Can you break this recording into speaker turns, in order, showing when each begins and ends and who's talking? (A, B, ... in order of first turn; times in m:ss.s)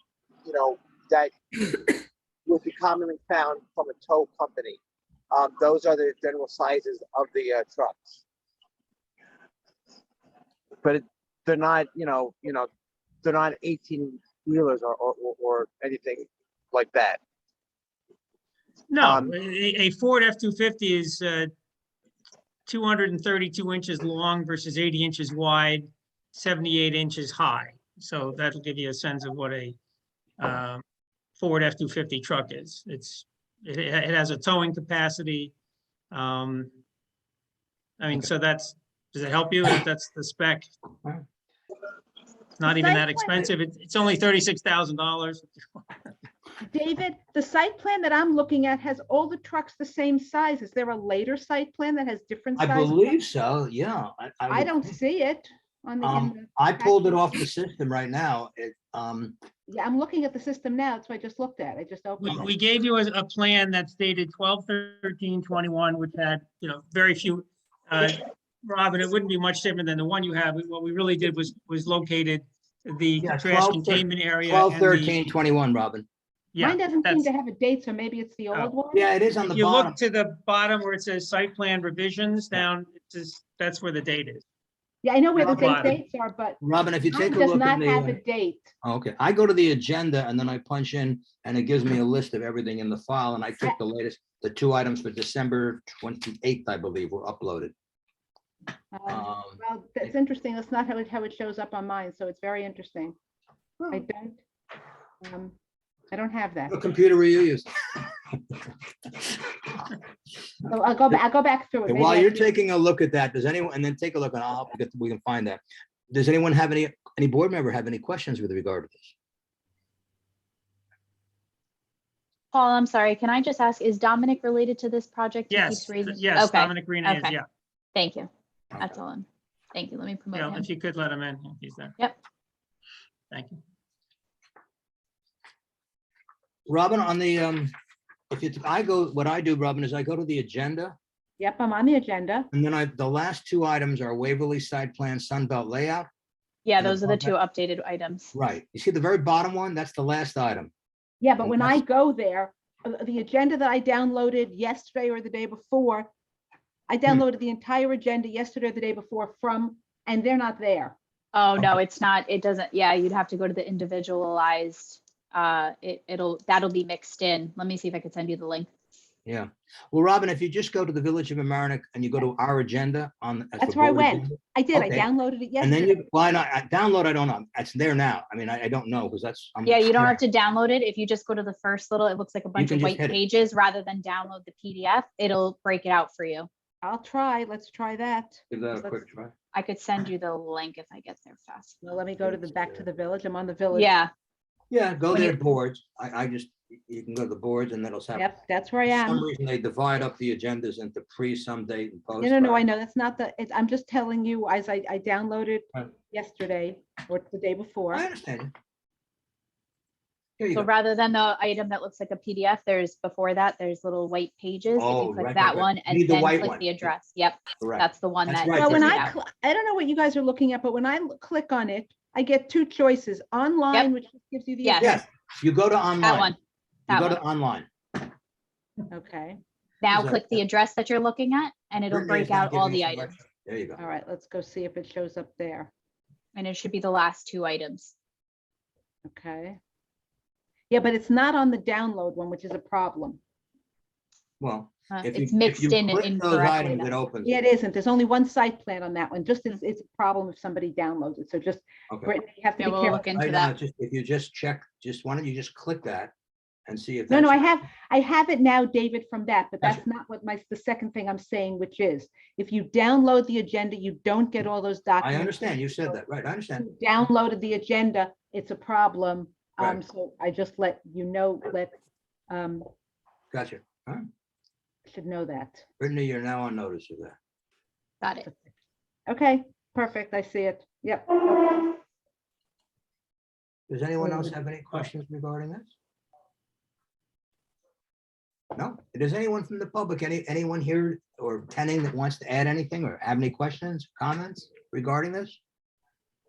0:00.4-0:01.9 A
0:02.5-0:04.8 A
0:05.3-0:08.2 A
0:10.8-0:12.7 A
0:13.2-0:17.2 A
0:18.9-0:21.5 B
0:19.0-0:19.3 A
0:22.7-0:29.8 B
0:30.4-0:30.8 B
0:31.4-0:35.5 B
0:36.1-0:36.7 B
0:38.0-0:40.7 B
0:42.6-0:45.4 B
0:42.6-0:43.4 C
0:46.6-0:53.2 C
0:52.6-0:54.9 D
0:54.5-0:57.3 C
0:56.0-0:59.4 D
0:59.7-1:02.5 C
1:02.2-1:15.2 B
1:13.2-1:16.1 D
1:16.5-1:17.3 B
1:16.6-1:19.0 C
1:18.9-1:20.0 D
1:19.5-1:24.4 B
1:25.0-1:28.7 C
1:25.4-1:26.0 B
1:25.4-1:25.9 D
1:26.6-1:28.2 D
1:28.8-1:37.7 D
1:38.9-1:43.2 C
1:39.1-1:39.6 D
1:43.9-1:44.4 C
1:45.2-1:45.6 C
1:46.1-1:46.8 C
1:46.7-1:47.7 D
1:50.7-1:52.5 C
1:51.9-1:59.1 D
2:02.5-2:07.4 E
2:05.5-2:07.5 B
2:07.9-2:10.7 E
2:08.7-2:09.0 D
2:10.3-2:11.9 B
2:13.3-2:13.6 B
2:16.7-2:17.7 D
2:18.3-2:21.0 D
2:21.4-2:22.5 C
2:22.5-2:26.1 D
2:26.6-2:28.3 E
2:26.8-2:27.4 D
2:28.3-2:30.7 D
2:31.2-2:36.1 C
2:31.4-2:31.8 D
2:36.9-2:41.0 C
2:41.3-2:48.7 E
2:49.2-2:55.1 D
2:53.6-2:56.1 C
2:55.6-3:00.2 D
2:59.6-3:06.5 E
3:02.6-3:03.2 D
3:06.8-3:09.0 C
3:08.5-3:09.3 D
3:09.5-3:11.8 E
3:11.8-3:13.9 C
3:12.2-3:12.8 D
3:13.7-3:14.1 E
3:14.7-3:18.3 D
3:18.2-3:19.3 C
3:18.9-3:22.6 D
3:22.2-3:28.1 C
3:27.9-3:28.5 D
3:30.4-3:30.7 D
3:30.6-3:39.2 E
3:34.8-3:36.9 D
3:37.6-3:39.0 D
3:38.5-3:45.0 C
3:44.6-3:45.0 E
3:44.8-3:46.3 D
3:46.0-3:46.4 E
3:46.9-3:47.2 E
3:46.9-3:47.7 D
3:48.9-3:49.4 C
3:49.8-3:53.2 E
3:49.9-3:50.4 D
3:51.9-3:53.8 D
3:53.8-3:55.7 C
3:56.4-3:57.9 E
3:59.1-3:59.6 C
4:00.7-4:03.2 C
4:04.4-4:07.3 D
4:04.9-4:07.0 E
4:07.2-4:13.1 C
4:12.6-4:13.5 E
4:12.9-4:16.1 D
4:16.7-4:17.5 D
4:17.1-4:26.0 C
4:25.0-4:26.7 D
4:26.6-4:31.7 C
4:32.3-4:32.7 C
4:33.3-4:34.1 D
4:34.9-4:35.6 C
4:35.8-4:37.2 D
4:38.0-4:38.3 E
4:39.1-4:41.8 C
4:43.7-4:45.7 D
4:48.6-4:55.4 D